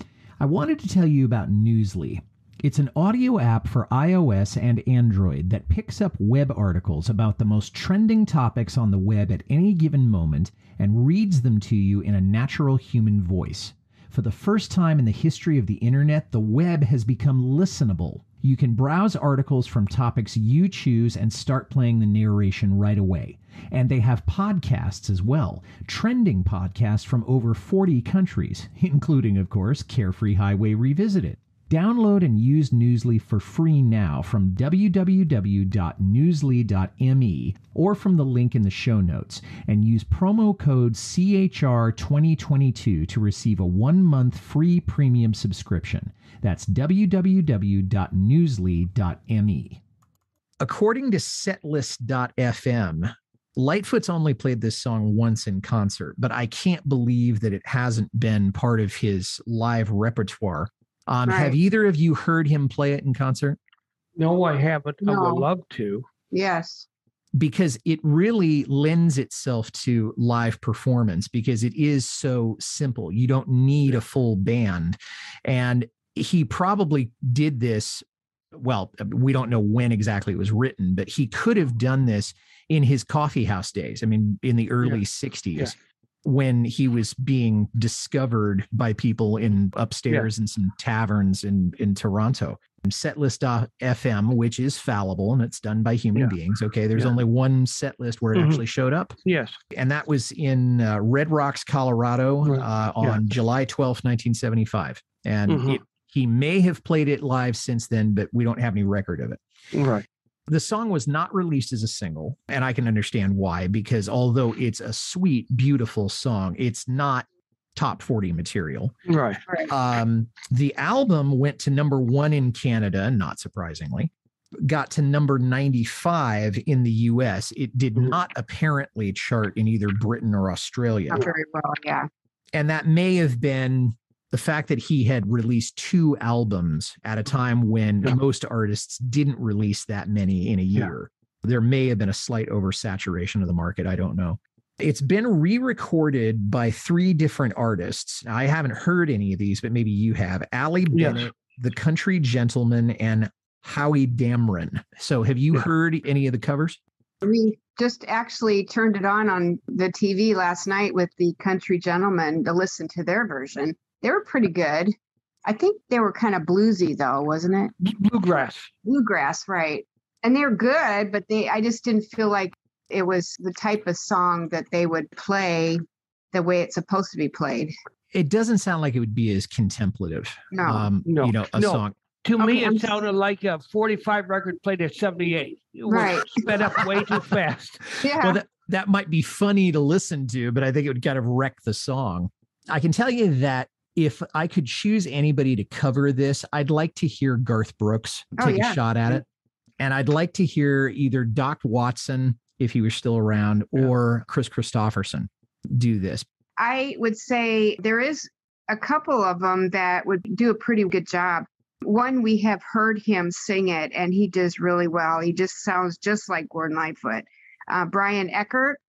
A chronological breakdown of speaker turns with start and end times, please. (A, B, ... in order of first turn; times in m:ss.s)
0:00.4-0:49.8 A
0:50.6-1:03.6 A
1:01.3-1:01.6 B
1:04.2-1:06.1 C
1:05.0-1:05.5 B
1:06.3-1:06.9 B
1:07.4-1:39.2 A
1:38.4-1:38.6 C
1:39.2-1:39.6 C
1:39.7-1:49.4 A
1:42.4-1:43.2 C
1:45.5-1:45.8 C
1:49.7-1:50.1 C
1:50.5-1:59.0 A
1:59.1-1:59.4 C
1:59.7-2:04.1 A
2:04.6-2:11.2 A
2:11.1-2:12.1 B
2:12.5-2:36.8 A
2:30.9-2:31.3 C
2:37.2-2:44.9 B
2:45.5-2:47.7 B
2:47.8-2:48.7 C
2:48.8-2:57.7 B
2:58.1-3:01.9 A
3:00.5-3:00.9 B
3:01.1-3:07.9 C
3:02.4-3:02.9 B
3:05.9-3:06.5 B
3:08.0-3:08.4 B
3:08.2-3:19.2 A
3:18.4-3:19.2 B
3:19.8-3:26.2 A
3:26.6-3:38.8 B